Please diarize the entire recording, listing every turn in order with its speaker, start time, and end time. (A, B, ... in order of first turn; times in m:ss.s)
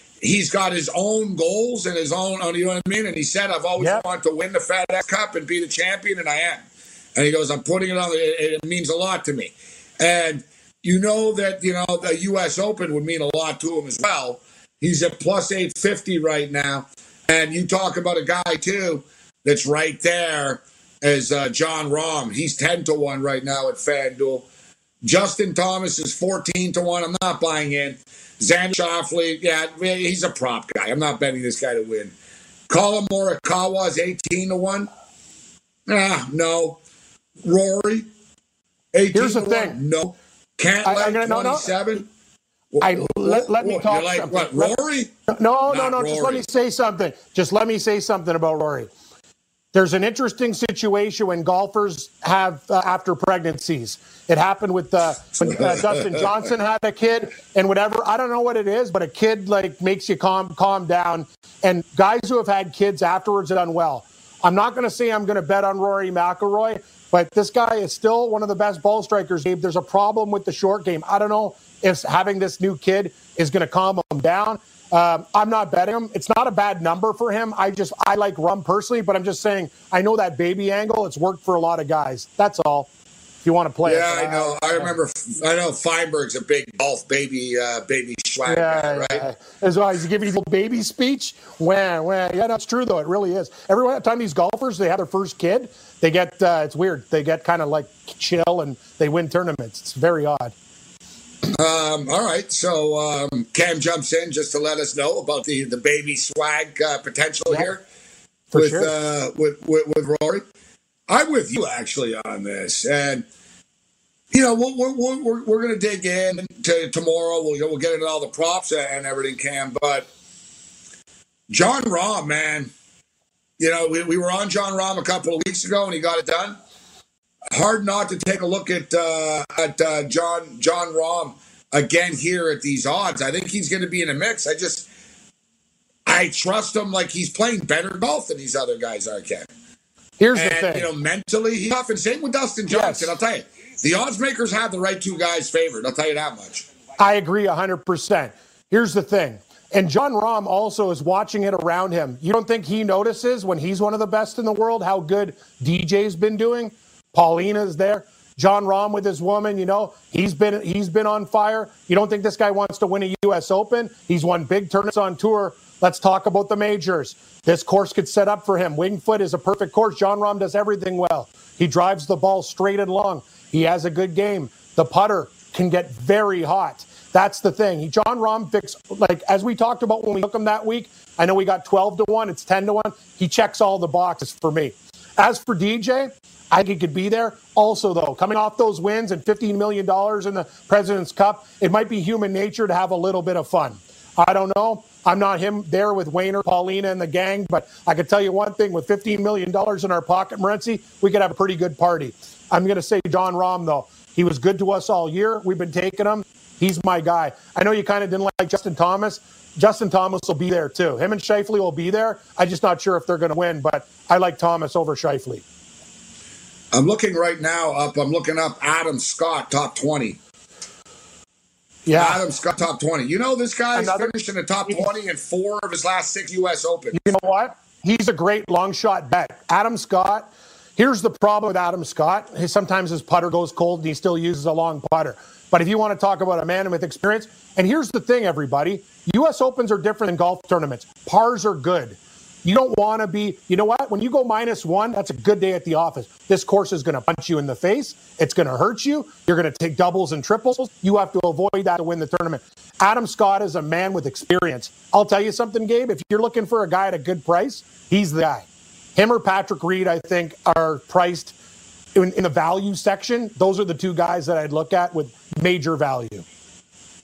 0:00.2-0:06.6 A
0:03.8-0:04.0 B
0:07.2-0:24.4 A
0:25.0-0:32.1 A
0:32.7-0:34.9 A
0:35.9-0:36.8 A
0:37.4-0:38.1 A
0:38.9-0:42.1 A
0:39.1-0:39.8 B
0:40.8-0:41.8 B
0:42.7-0:45.1 A
0:42.8-0:44.8 B
0:45.3-0:48.9 B
0:45.7-0:46.4 A
0:49.7-1:22.9 B
0:55.4-0:56.2 A
1:23.4-1:24.9 B
1:23.8-1:29.2 A
1:28.4-1:40.5 B
1:41.6-1:47.8 A
1:48.5-1:48.9 B
1:48.5-1:50.4 A
1:51.1-1:53.2 A
1:54.3-2:00.1 A
2:01.5-2:02.7 A
2:03.6-2:06.6 A
2:07.5-2:14.9 A
2:16.1-2:19.5 A
2:20.2-2:20.9 B
2:20.3-2:26.7 A
2:22.7-2:23.2 B
2:27.0-3:35.4 B
3:36.7-3:40.2 A
3:41.9-3:42.2 B
3:41.9-3:47.1 A
3:43.7-3:44.1 B
3:46.9-4:21.4 B
4:22.0-4:26.2 B